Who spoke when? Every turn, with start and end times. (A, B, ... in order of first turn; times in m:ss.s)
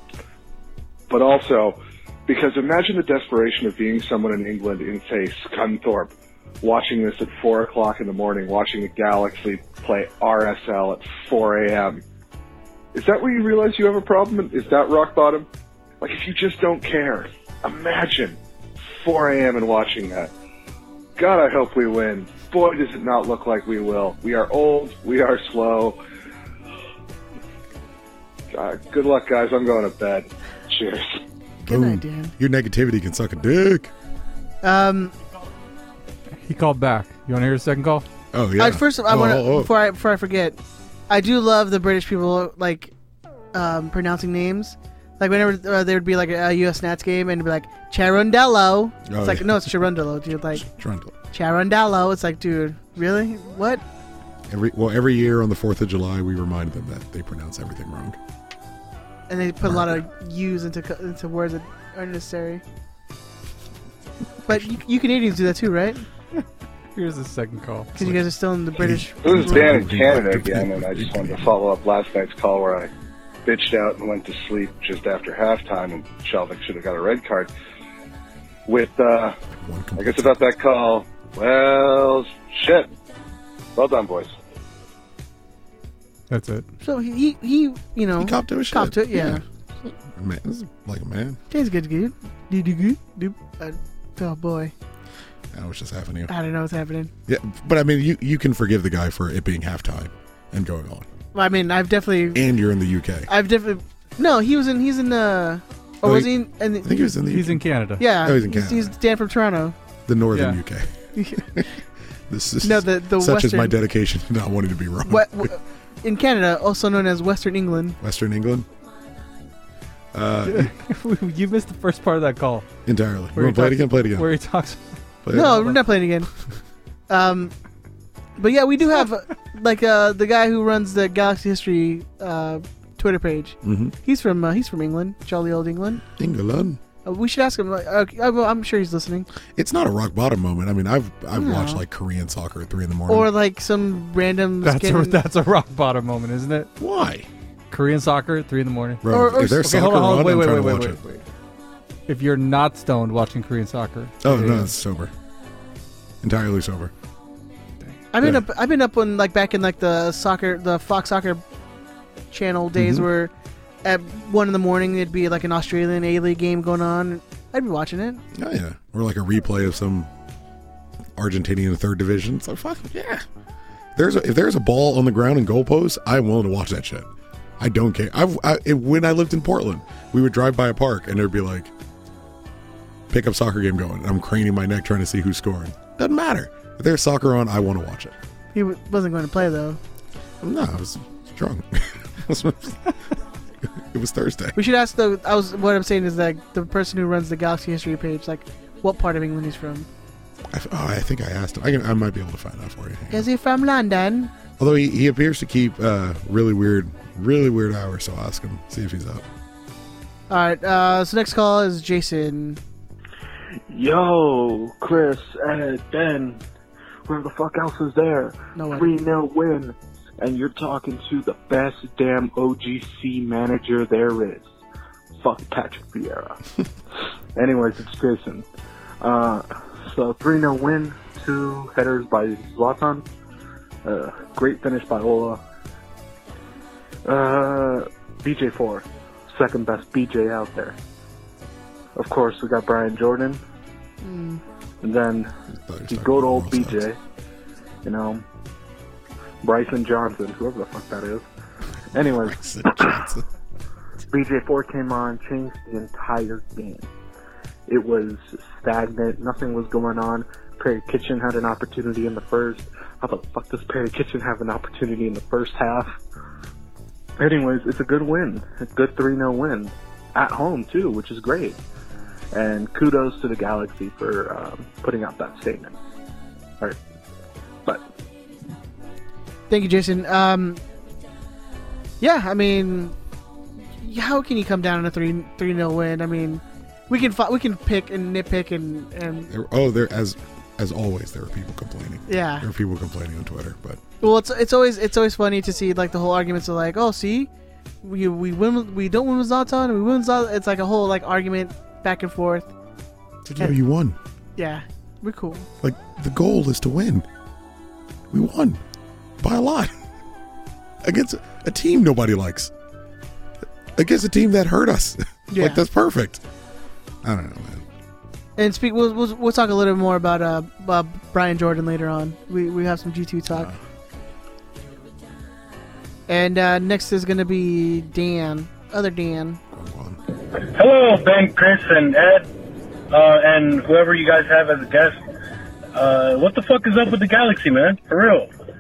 0:01.1-0:12.0 A
0:12.9-0:15.5 A
0:16.0-0:18.4 A
0:19.0-0:20.3 A
0:21.2-0:26.0 A
0:28.5-0:31.2 A
0:31.6-0:32.3 B
0:31.7-0:33.9 C
0:34.6-0:35.2 B
0:36.4-0:38.1 D
0:38.3-0:39.7 C
0:38.6-0:40.6 B
0:41.1-0:42.9 B
0:43.5-0:50.7 B
0:49.1-0:49.8 C
0:50.5-0:51.1 C
0:51.3-0:53.8 B
0:54.5-0:58.2 C
0:59.3-1:02.6 B
0:59.6-1:00.0 C
1:04.5-1:06.1 B
1:07.0-1:07.9 D
1:08.0-1:09.8 B
1:08.0-1:08.2 C
1:08.8-1:11.4 C
1:09.2-1:12.9 A
1:13.4-1:17.5 A
1:18.7-1:19.4 A
1:19.6-1:20.4 C
1:20.0-1:22.9 A
1:23.8-1:24.3 A
1:26.3-1:26.7 D
1:26.8-1:29.4 B
1:28.2-1:31.4 C
1:31.5-1:34.7 B
1:35.5-1:36.3 C
1:36.3-1:37.1 B
1:37.3-1:41.1 C
1:41.3-1:42.5 B
1:42.3-1:43.3 C
1:43.3-1:47.1 B
1:46.0-1:49.0 C
1:47.3-1:48.0 D
1:48.0-1:49.8 B
1:50.1-1:50.9 C
1:50.3-1:50.6 D
1:51.2-1:51.5 B
1:52.3-1:55.5 C
1:52.6-1:53.8 B
1:55.1-1:58.0 B
1:58.0-1:58.7 C
2:00.1-2:00.7 C
2:00.4-2:02.7 D
2:02.9-2:04.3 C
2:03.4-2:05.8 D
2:05.2-2:05.8 C
2:05.3-2:06.3 B
2:07.1-2:07.5 B
2:08.4-2:16.0 B
2:13.6-2:14.0 C
2:16.1-2:16.8 C
2:17.0-2:19.3 B
2:19.5-2:23.3 C
2:21.4-2:21.8 B
2:23.1-2:25.2 B
2:24.6-2:26.7 D
2:26.8-2:27.3 C
2:27.7-2:31.2 D
2:29.0-2:31.0 C
2:29.1-2:29.7 B
2:32.1-2:34.7 D
2:34.2-2:35.1 C
2:36.2-2:36.9 C
2:38.1-2:41.4 B
2:38.2-2:38.4 C
2:42.3-2:43.3 B
2:42.8-2:43.1 C
2:43.8-2:48.2 B
2:48.3-2:50.1 C
2:51.2-2:53.2 C
2:54.0-2:57.1 C
2:57.6-3:01.7 C
3:03.1-3:08.2 C
3:08.5-3:09.8 B
3:10.4-3:12.9 C
3:13.6-3:14.6 C
3:14.6-3:19.9 B
3:20.5-3:23.3 C
3:23.1-3:24.3 B
3:24.6-3:29.3 C
3:30.3-3:32.6 B
3:33.7-3:36.4 E
3:37.1-3:44.5 E
3:38.6-3:38.9 B
3:45.2-3:46.4 E
3:47.4-3:48.5 E
3:49.0-3:53.0 E
3:53.8-3:55.4 E
3:57.0-4:00.8 E
4:02.0-4:03.4 E
4:04.0-4:04.4 B
4:04.8-4:05.3 E
4:05.5-4:06.8 C
4:05.9-4:07.0 E
4:07.8-4:08.2 E
4:09.4-4:11.3 E
4:11.9-4:13.0 E
4:12.1-4:13.2 C
4:14.1-4:16.9 E
4:17.7-4:26.0 E
4:27.2-4:31.6 E
4:32.3-4:35.8 E
4:39.5-4:40.6 B
4:42.0-4:43.0 B
4:43.8-4:49.3 B
4:49.3-4:53.8 C
4:52.1-4:52.5 B
4:54.0-4:57.3 B
4:57.8-5:02.5 B
5:03.2-5:04.0 C
5:04.4-5:05.5 B
5:05.6-5:07.1 C
5:08.1-5:08.6 C
5:09.2-5:09.7 C
5:10.8-5:12.5 C
5:13.8-5:16.2 C
5:15.3-5:15.6 B
5:17.0-5:17.6 C
5:18.4-5:23.5 B
5:23.3-5:23.6 C
5:26.1-5:29.4 B
5:29.5-5:30.0 C
5:30.3-5:32.3 F
5:32.9-5:35.0 F
5:35.7-5:38.3 F